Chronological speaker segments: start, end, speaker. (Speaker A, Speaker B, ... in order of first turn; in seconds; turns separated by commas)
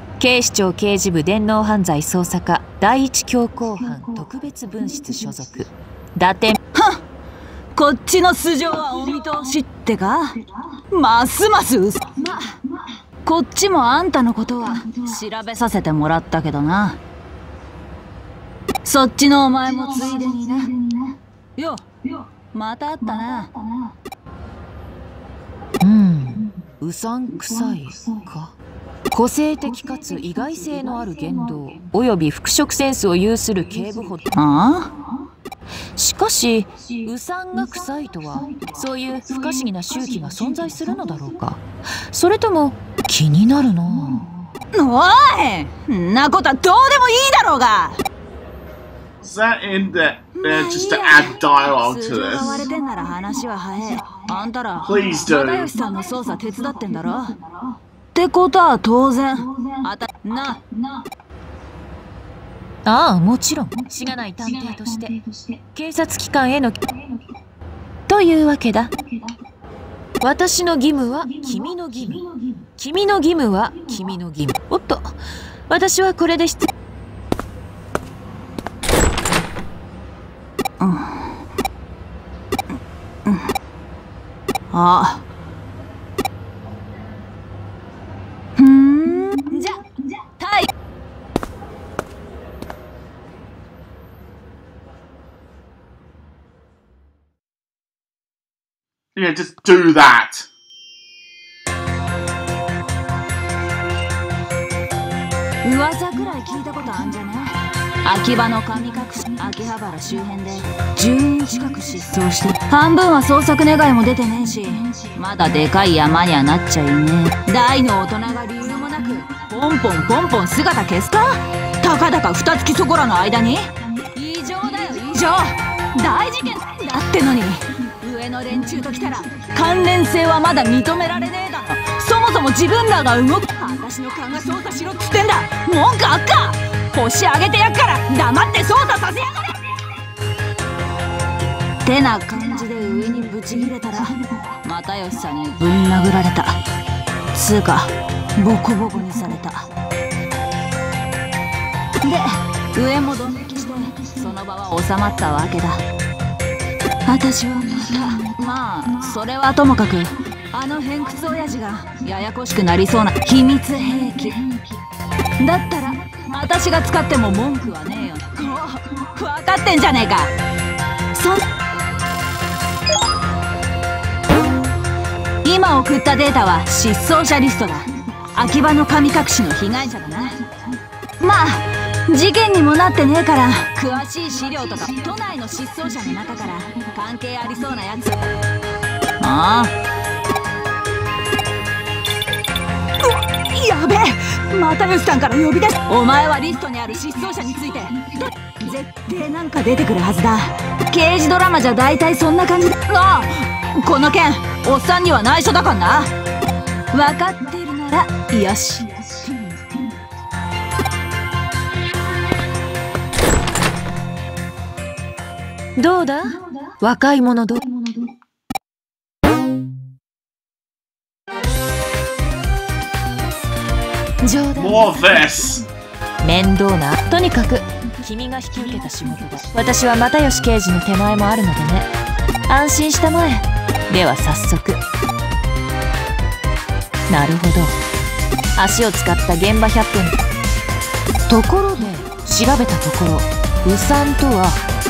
Speaker A: 0.2-6.6, Speaker B: 6.7-7.0, Speaker B: 7.7-10.4, Speaker B: 10.9-12.6, Speaker B: 13.2-17.0, Speaker B: 18.8-20.7, Speaker B: 21.6-21.9, Speaker B: 22.5-23.5, Speaker A: 25.8-28.6, Speaker A: 29.1-34.3, Speaker B: 34.4-34.9, Speaker A: 36.0-44.3, Speaker B: 44.7-48.0, Speaker C: 49.2-52.6, Speaker B: 50.4-57.4, Speaker C: 54.8-55.7, Speaker B: 58.1-60.8, Speaker A: 62.9-66.8, Speaker A: 68.1-68.9, Speaker A: 70.2-72.3, Speaker A: 72.8-75.1, Speaker A: 75.7-76.7, Speaker B: 80.8-81.4, Speaker B: 83.2-83.5, Speaker B: 84.7-85.2, Speaker B: 88.5-90.7, Speaker C: 99.1-100.5, Speaker B: 105.6-139.6, Speaker B: 141.8-146.6, Speaker B: 147.3-149.6, Speaker B: 152.0-155.8, Speaker B: 157.1-164.4, Speaker B: 165.4-170.3, Speaker B: 171.1-171.4, Speaker B: 175.4-180.4, Speaker B: 181.2-188.2, Speaker B: 189.2-189.7, Speaker B: 193.0-206.1, Speaker B: 206.9-209.6, Speaker A: 215.8-217.8, Speaker A: 224.2-225.0, Speaker C: 224.6-225.6, Speaker A: 226.2-231.9, Speaker A: 232.5-234.8, Speaker A: 237.1-237.8, Speaker A: 238.6-240.2, Speaker A: 241.3-244.6